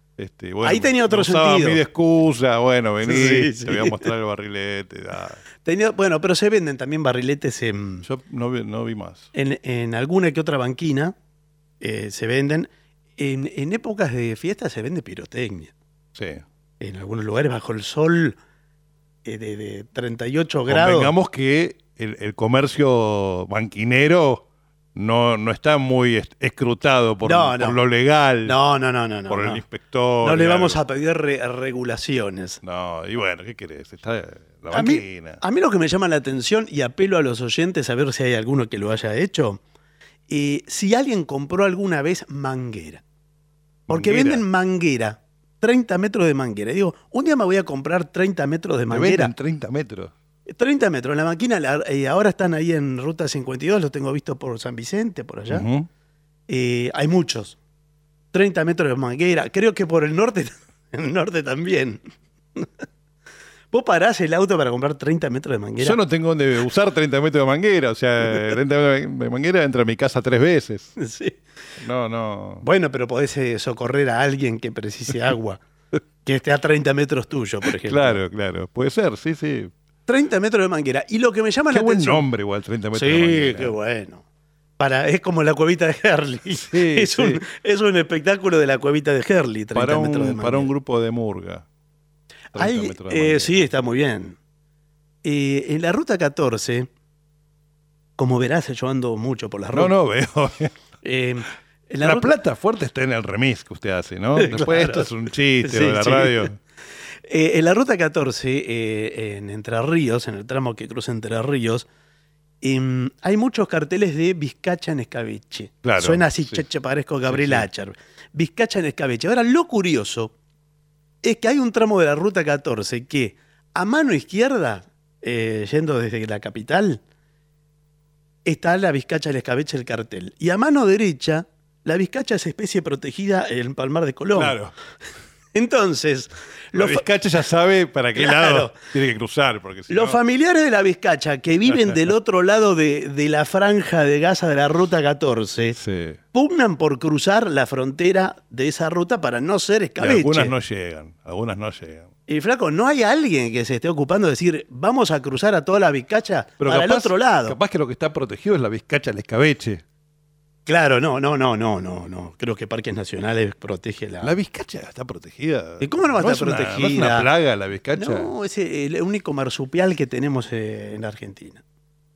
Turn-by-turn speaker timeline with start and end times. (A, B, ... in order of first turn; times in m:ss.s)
0:00.2-0:05.4 A
0:00.6-0:01.8 B
0:03.0-0:04.1 B
0:05.6-0:08.0 B
0:08.0-0:09.3 A
0:09.3-0:11.1 B
0:11.8-0:15.7 B
0:16.2-0:16.4 A
0:16.8-0:18.4 B
0:19.2-0:21.1 B
0:20.7-0:24.4 A
0:25.0-0:28.6 A
0:27.2-0:27.8 B
0:28.4-0:29.6 B
0:29.3-0:30.8 A
0:30.2-0:32.6 B
0:32.6-0:35.4 A
0:34.7-0:39.6 B
0:40.3-0:43.0 B
0:43.9-0:44.4 A
0:43.9-0:49.3 B
0:48.9-0:50.1 A
0:50.5-0:55.6 B
0:55.5-0:55.9 A
0:56.5-0:57.6 B
0:58.3-1:02.0 B
1:03.7-1:06.0 B
1:05.8-1:10.9 A
1:11.0-1:11.4 B
1:11.8-1:12.6 A
1:12.6-1:15.6 B
1:16.2-1:18.2 B
1:17.6-1:19.7 A
1:20.1-1:22.2 B
1:21.7-1:23.7 A
1:22.9-1:24.2 B
1:24.8-1:30.7 B
1:26.5-1:27.4 A
1:29.7-1:31.6 A
1:32.5-1:33.6 A
1:32.5-1:34.4 B
1:35.2-1:36.9 B
1:38.2-1:39.9 B
1:39.7-1:40.7 A
1:41.0-1:42.3 B
1:42.0-1:46.6 A
1:44.4-1:45.1 B
1:45.6-1:46.5 B
1:47.2-1:51.9 B
1:52.6-2:00.3 B
1:55.8-1:56.6 A
1:57.2-1:57.6 A
2:01.2-2:07.0 B
2:08.4-2:14.6 B
2:14.3-2:14.7 A
2:15.5-2:17.0 B
2:16.7-2:20.2 A
2:18.2-2:18.7 B
2:19.9-2:25.8 B
2:21.7-2:22.0 A
2:25.7-2:26.2 A
2:26.3-2:30.5 B
2:30.0-2:32.1 A
2:32.3-2:37.6 B
2:36.6-2:39.8 A
2:40.6-2:44.3 B
2:44.2-2:48.3 A
2:45.8-2:47.3 B
2:48.0-2:51.6 B